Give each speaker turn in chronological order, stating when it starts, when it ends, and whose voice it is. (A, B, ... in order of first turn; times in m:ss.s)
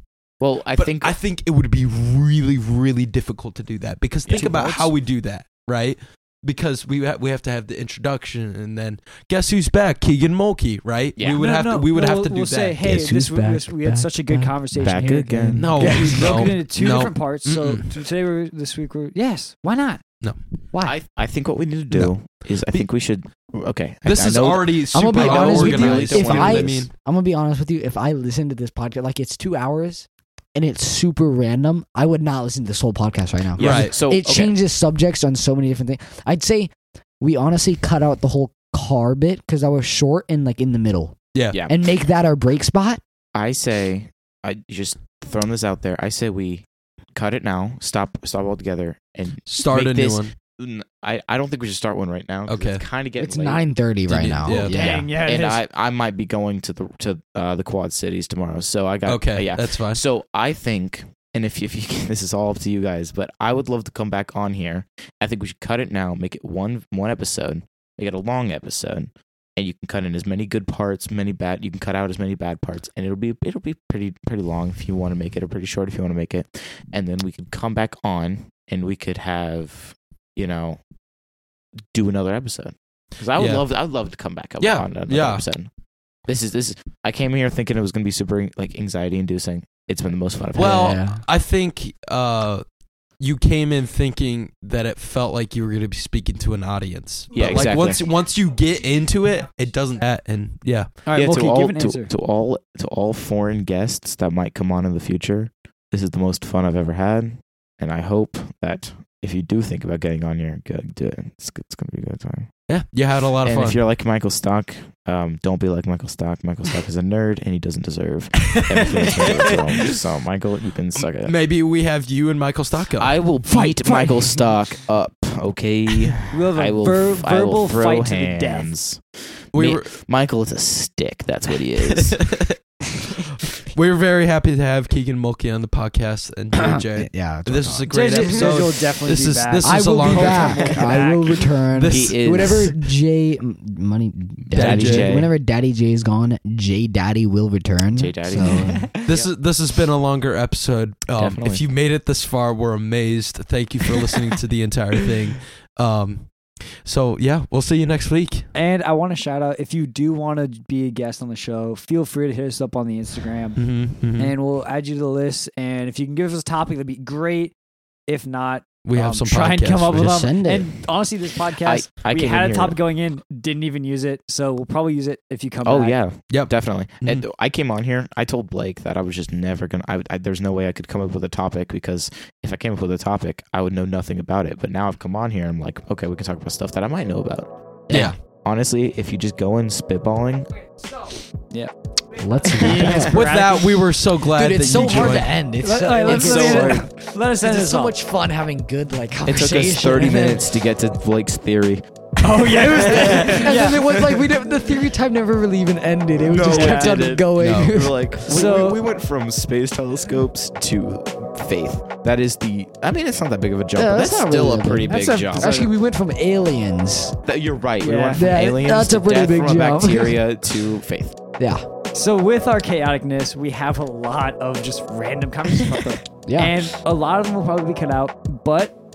0:00.4-0:01.1 A
0:00.8-0:12.8 B
0:04.3-0:04.9 C
0:11.2-0:11.4 A
0:11.4-0:20.0 C
0:12.8-0:16.5 D
0:14.8-0:16.0 A
0:15.5-0:17.9 B
0:20.8-0:26.8 A
0:24.0-0:26.9 B
0:24.9-0:43.0 D
0:33.5-0:34.5 A
0:33.6-0:33.9 B
0:41.5-0:41.8 A
0:43.3-0:53.6 A
0:49.5-0:50.3 B
0:52.5-0:52.8 B
0:53.2-0:55.1 D
0:54.1-0:54.9 B
0:54.5-0:55.6 C
0:54.8-1:20.8 A
0:59.0-1:00.0 B
1:21.9-1:25.7 A
1:23.4-1:23.6 B
1:24.6-1:25.4 B
1:26.3-1:31.0 A
1:30.6-1:32.6 B
1:30.6-1:31.2 D
1:33.2-1:40.9 B
1:37.3-1:38.0 A
1:41.0-1:42.1 C
1:41.1-1:52.5 A
1:52.7-1:53.8 B
1:53.4-2:01.3 A
1:58.5-2:00.0 B
2:01.0-2:03.1 B
2:03.0-2:12.4 A
2:03.4-2:04.4 C
2:06.3-2:08.7 C
2:09.5-2:09.9 B
2:12.0-2:12.5 B
2:13.6-2:20.8 B
2:16.6-2:18.5 D
2:17.9-2:21.5 C
2:19.6-2:28.9 D
2:21.7-2:22.8 B
2:21.9-2:22.7 A
2:24.5-2:25.3 A
2:24.5-2:25.3 B
2:27.9-2:29.3 A
2:28.4-2:29.1 C
2:29.0-2:36.3 B
2:31.2-2:31.7 A
2:36.8-2:38.5 B
2:38.5-2:47.5 C
2:43.6-2:44.3 B
2:48.1-2:56.0 C
2:48.8-2:50.2 B
2:49.9-2:50.7 D
2:51.6-2:52.8 A
2:55.6-3:10.5 A
2:56.3-2:57.2 B
3:07.9-3:08.2 D
3:12.2-3:13.1 D
3:12.4-3:13.9 C
3:12.8-3:13.1 A
3:12.8-3:15.3 B
3:14.2-3:20.4 D
3:14.7-3:18.0 C
3:16.0-3:16.8 A
3:19.2-3:24.2 A
3:22.2-3:23.9 C
3:22.9-3:28.2 D
3:26.2-3:35.6 A
3:26.4-3:27.1 C
3:27.4-3:27.7 B
3:28.3-3:28.8 C
3:33.7-3:37.2 D
3:34.9-3:35.7 C
3:37.2-3:41.2 A
3:37.8-3:38.3 C
3:38.1-3:40.2 D
3:41.4-3:41.6 D
3:41.9-3:48.7 C
3:46.2-3:46.5 D